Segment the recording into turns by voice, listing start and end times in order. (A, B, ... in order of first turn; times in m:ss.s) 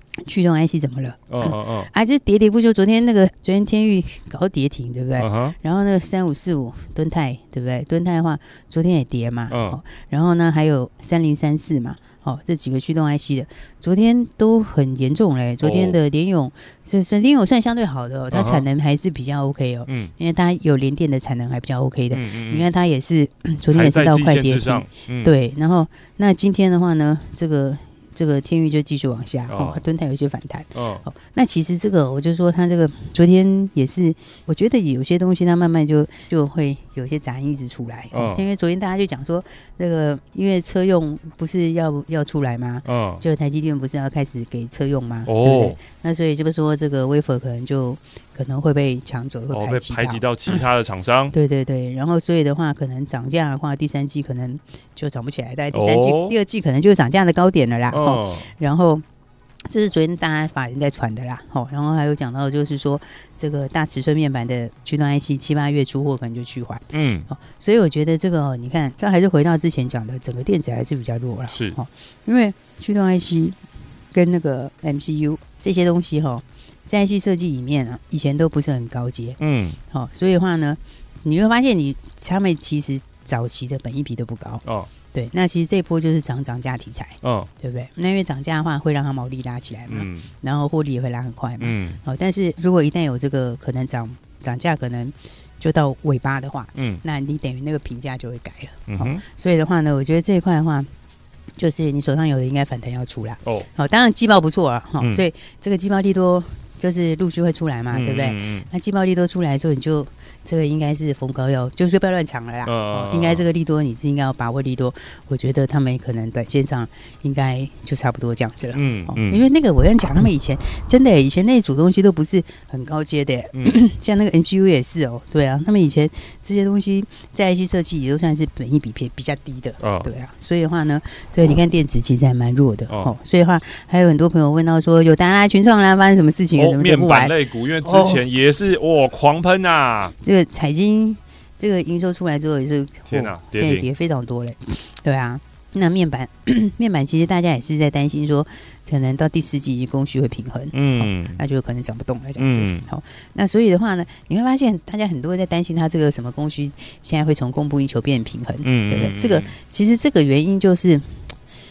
0:00.2-0:50.6 A
0:01.3-0:01.9 B
0:05.2-0:05.6 B
0:09.5-0:09.8 B
0:15.6-0:16.0 B
0:18.3-0:18.7 B
0:19.9-0:20.1 B
0:22.1-0:22.7 B
0:23.7-0:25.3 B
0:29.5-0:29.8 B
0:30.8-0:31.0 B
0:38.1-0:38.4 B
0:42.8-0:43.2 B
0:45.3-0:45.8 B
0:49.5-0:51.3 B
0:51.3-0:59.0 A
0:55.7-0:56.4 B
0:57.9-0:58.5 B
0:59.7-1:13.6 A
1:06.9-1:07.3 B
1:11.5-1:11.8 B
1:14.1-1:19.4 A
1:19.4-1:19.8 B
1:19.9-1:40.9 A
1:24.6-1:24.9 B
1:27.2-1:27.5 B
1:29.9-1:30.3 B
1:31.6-1:32.0 B
1:36.8-1:37.0 B
1:38.9-1:39.2 B
1:41.6-2:18.2 A
1:45.0-1:45.2 B
1:47.9-1:48.7 B
1:52.6-1:53.4 B
1:58.8-1:59.4 B
2:03.5-2:03.8 B
2:09.8-2:10.1 B
2:16.6-2:20.2 B
2:20.2-2:41.2 A
2:23.1-2:23.9 B
2:30.7-2:31.4 B
2:32.4-2:32.9 B
2:38.6-2:39.5 B